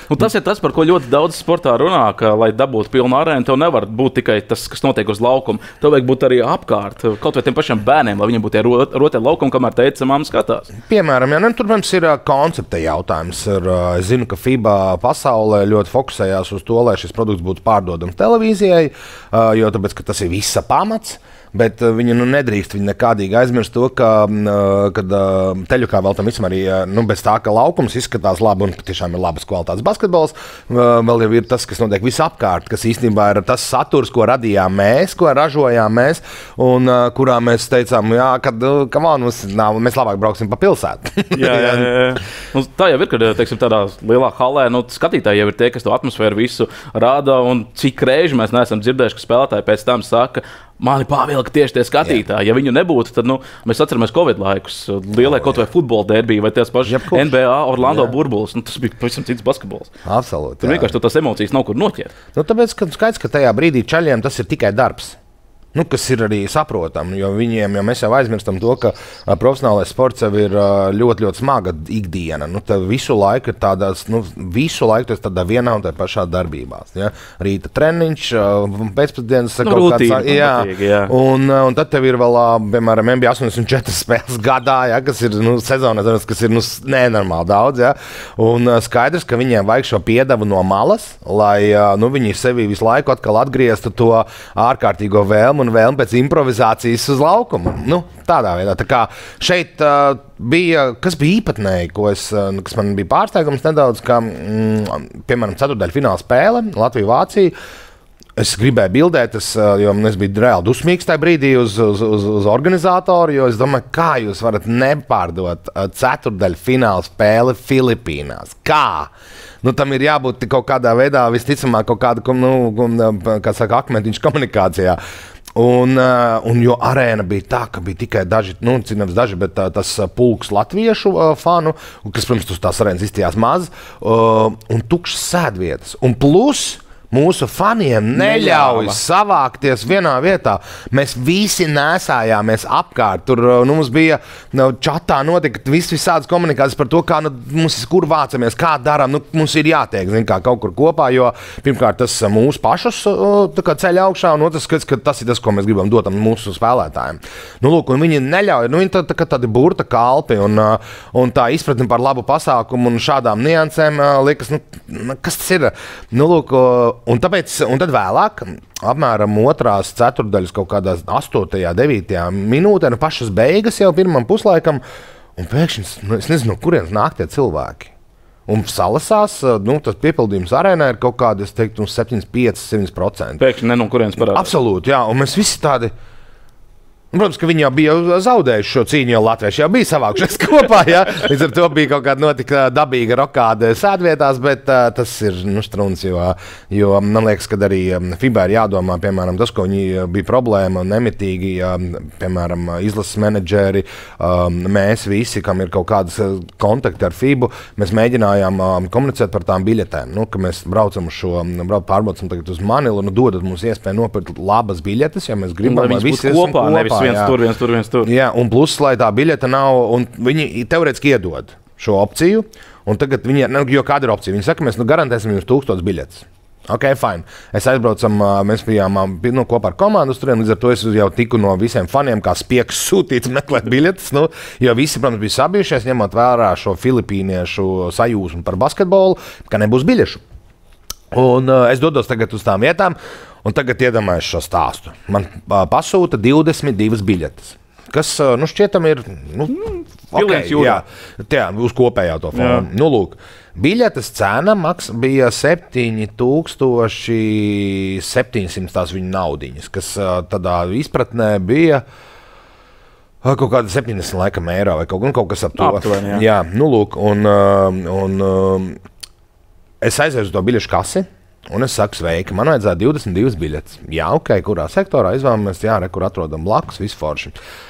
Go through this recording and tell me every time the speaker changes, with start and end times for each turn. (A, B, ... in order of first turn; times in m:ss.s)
0:00.1-0:10.7 A
0:10.9-0:41.9 B
0:41.3-0:59.9 A
0:56.8-0:58.1 B
1:00.0-1:00.9 B
1:00.6-1:02.1 A
1:02.3-1:05.2 B
1:05.7-1:47.5 B
1:19.6-1:21.1 A
1:48.4-1:59.1 B
1:59.6-2:05.0 B
2:05.5-2:54.8 B
2:18.2-2:19.0 A
2:55.4-2:57.9 B
2:58.5-3:03.4 B
3:03.4-3:04.5 A
3:04.2-3:05.9 B
3:07.1-3:37.4 B
3:35.6-3:38.1 A
3:38.0-4:00.2 B
4:01.1-4:09.6 B
4:09.5-4:10.8 A
4:10.1-4:21.8 B
4:12.3-4:12.6 A
4:23.2-4:28.8 B
4:25.6-4:26.2 A
4:29.8-4:37.4 B